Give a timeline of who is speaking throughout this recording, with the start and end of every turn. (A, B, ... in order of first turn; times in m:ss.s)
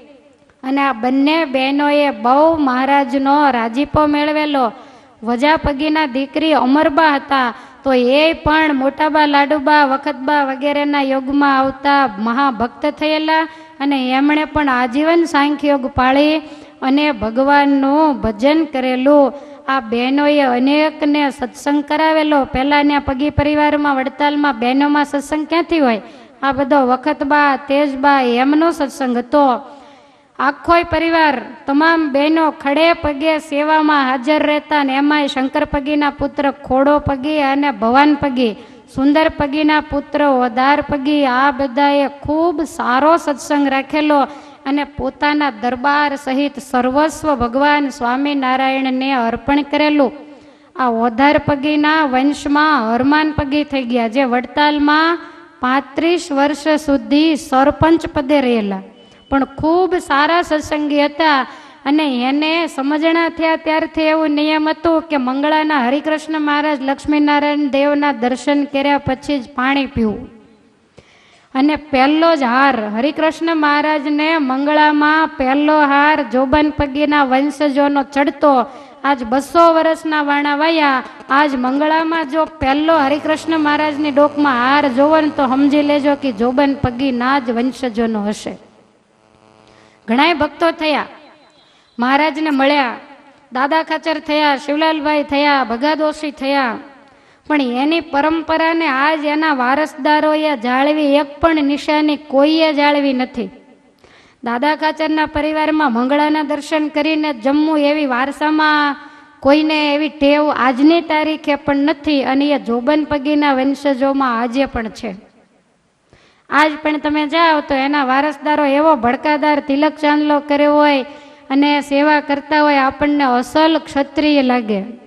0:00.6-0:04.7 A
0:05.2-0:29.6 A
0:30.4-0:50.1 A
0:50.8-1:10.2 A
1:11.6-1:28.6 A
1:30.1-1:31.0 A
1:32.0-1:32.9 A
1:33.5-1:36.7 A
1:37.5-1:43.5 A
1:44.4-1:55.2 A
1:56.6-2:04.9 A